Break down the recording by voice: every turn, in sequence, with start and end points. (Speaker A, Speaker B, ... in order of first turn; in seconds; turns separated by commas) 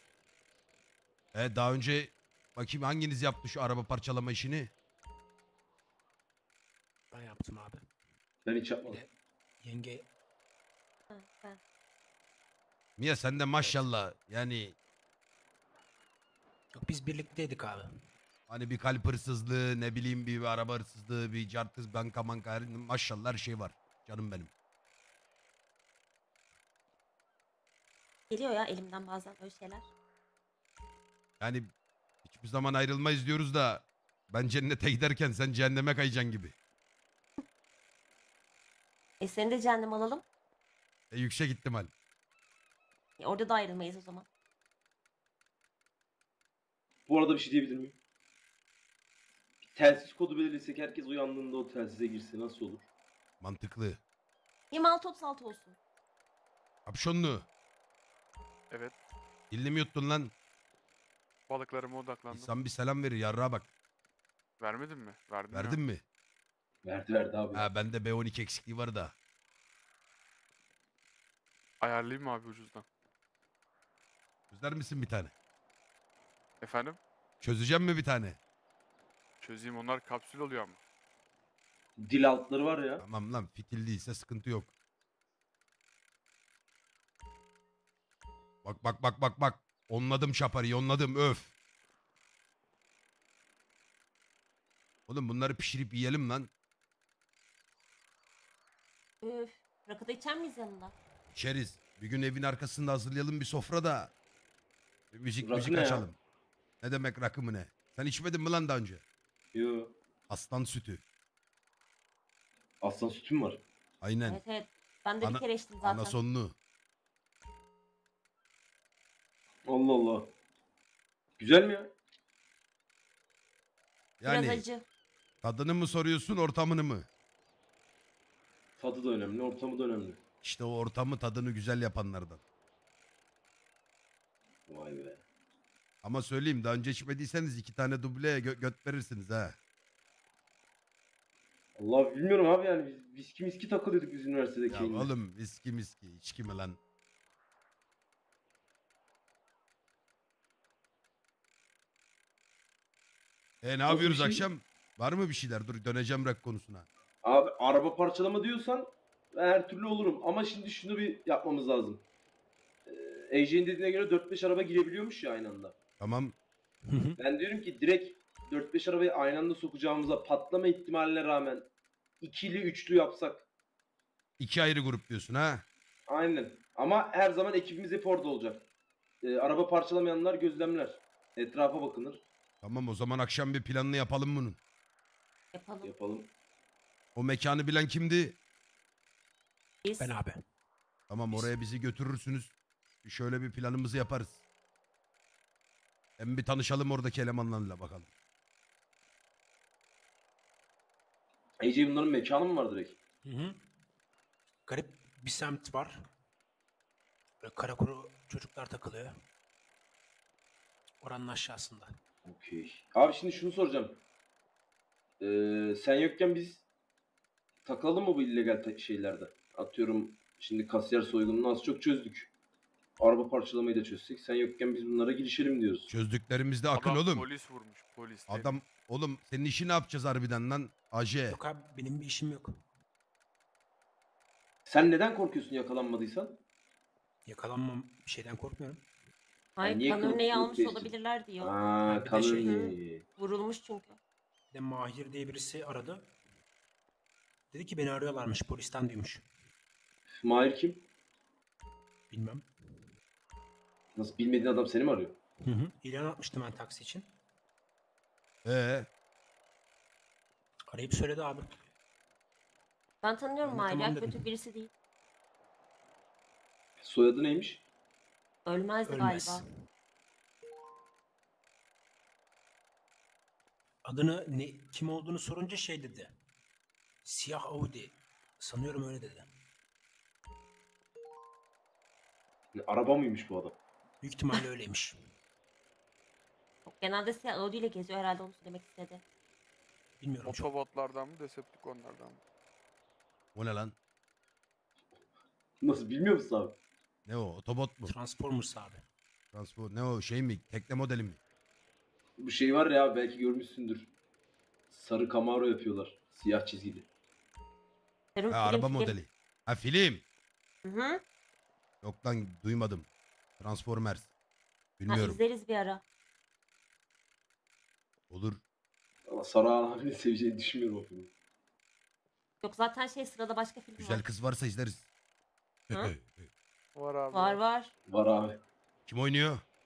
Speaker A: 1.3-4.7, Speaker B: 7.1-7.8, Speaker C: 8.4-9.0, Speaker B: 9.6-10.1, Speaker D: 11.1-11.6, Speaker A: 13.0-14.8, Speaker B: 16.7-17.9, Speaker A: 18.5-24.5, Speaker D: 28.3-29.9, Speaker A: 31.4-31.7, Speaker A: 32.2-36.5, Speaker D: 39.2-40.2, Speaker A: 41.1-41.9, Speaker D: 43.2-44.2, Speaker C: 47.1-48.0, Speaker C: 49.8-52.9, Speaker A: 53.4-54.0, Speaker D: 54.7-55.8, Speaker A: 56.9-57.5, Speaker E: 58.7-58.9, Speaker A: 59.5-60.3, Speaker E: 61.5-62.5, Speaker A: 62.3-63.7, Speaker E: 64.6-65.8, Speaker A: 65.5-66.0, Speaker C: 66.8-67.6, Speaker A: 67.5-69.1, Speaker E: 71.8-72.8, Speaker A: 74.5-75.3, Speaker E: 76.6-77.0, Speaker A: 77.4-78.4, Speaker E: 79.4-80.8, Speaker C: 82.0-83.0, Speaker A: 83.0-84.7, Speaker A: 88.6-91.5, Speaker A: 95.1-96.5, Speaker D: 99.2-100.9, Speaker A: 101.3-104.1, Speaker A: 105.1-106.2, Speaker C: 105.4-106.0, Speaker A: 106.8-109.0, Speaker C: 109.5-109.9, Speaker A: 110.3-111.0, Speaker C: 112.8-113.6, Speaker A: 114.0-114.4, Speaker D: 114.3-116.2, Speaker A: 115.2-116.5, Speaker C: 119.7-120.3, Speaker C: 121.4-121.9, Speaker A: 124.2-124.6, Speaker D: 124.2-124.8, Speaker A: 125.4-127.1, Speaker C: 128.8-130.2, Speaker A: 130.4-132.4, Speaker C: 134.7-135.2, Speaker A: 136.0-139.6, Speaker C: 141.8-145.1, Speaker A: 144.7-146.8, Speaker A: 153.6-156.9, Speaker C: 153.9-154.4, Speaker C: 157.2-162.0, Speaker C: 162.9-165.7, Speaker A: 166.0-166.3, Speaker B: 166.9-167.2, Speaker C: 167.2-171.7, Speaker C: 172.2-173.4, Speaker A: 174.4-175.6, Speaker C: 176.1-178.7, Speaker C: 179.2-182.2, Speaker A: 182.6-184.6, Speaker D: 185.5-185.9, Speaker C: 185.8-186.3, Speaker A: 187.1-188.4, Speaker D: 189.8-190.1, Speaker B: 190.0-190.4, Speaker A: 191.1-192.5, Speaker A: 193.0-194.4, Speaker A: 196.2-198.1, Speaker C: 201.6-203.0, Speaker B: 203.2-203.6, Speaker B: 204.7-206.0, Speaker B: 207.4-209.1, Speaker B: 211.0-211.9, Speaker C: 212.2-214.0, Speaker C: 215.2-216.6, Speaker C: 217.6-222.3, Speaker C: 223.0-225.9, Speaker A: 225.9-227.2, Speaker E: 226.7-228.5, Speaker A: 228.3-231.4, Speaker B: 231.3-232.5, Speaker C: 234.7-236.4, Speaker B: 237.3-238.8, Speaker D: 239.6-241.5, Speaker C: 239.6-243.0, Speaker B: 241.8-242.6, Speaker D: 242.4-244.0, Speaker B: 244.5-246.1, Speaker B: 247.5-249.2, Speaker C: 250.2-250.8, Speaker B: 252.1-252.5, Speaker C: 253.9-255.2, Speaker B: 255.4-257.1, Speaker A: 258.4-258.9, Speaker B: 260.7-261.6, Speaker D: 263.0-264.7, Speaker B: 263.4-264.2, Speaker C: 266.8-267.6, Speaker D: 268.4-269.4, Speaker B: 268.9-269.4, Speaker B: 273.8-276.1, Speaker B: 277.0-279.3, Speaker C: 282.5-283.6, Speaker B: 284.0-285.0, Speaker D: 286.6-289.0, Speaker B: 290.0-290.5, Speaker E: 290.2-292.2, Speaker A: 293.3-293.7, Speaker C: 295.6-296.6, Speaker A: 297.1-297.9, Speaker B: 297.8-298.8, Speaker A: 299.3-301.2, Speaker C: 302.2-303.9, Speaker C: 304.7-306.9, Speaker D: 308.1-309.0, Speaker A: 308.3-310.0, Speaker D: 310.6-311.0, Speaker A: 311.8-312.9, Speaker A: 313.4-314.1, Speaker A: 314.8-315.2, Speaker D: 314.9-315.8, Speaker A: 318.1-318.4, Speaker C: 319.1-321.1, Speaker D: 322.4-324.0, Speaker A: 323.8-324.9, Speaker A: 325.7-326.3, Speaker E: 326.7-327.4, Speaker D: 327.1-327.7, Speaker C: 327.9-328.4, Speaker A: 328.9-329.4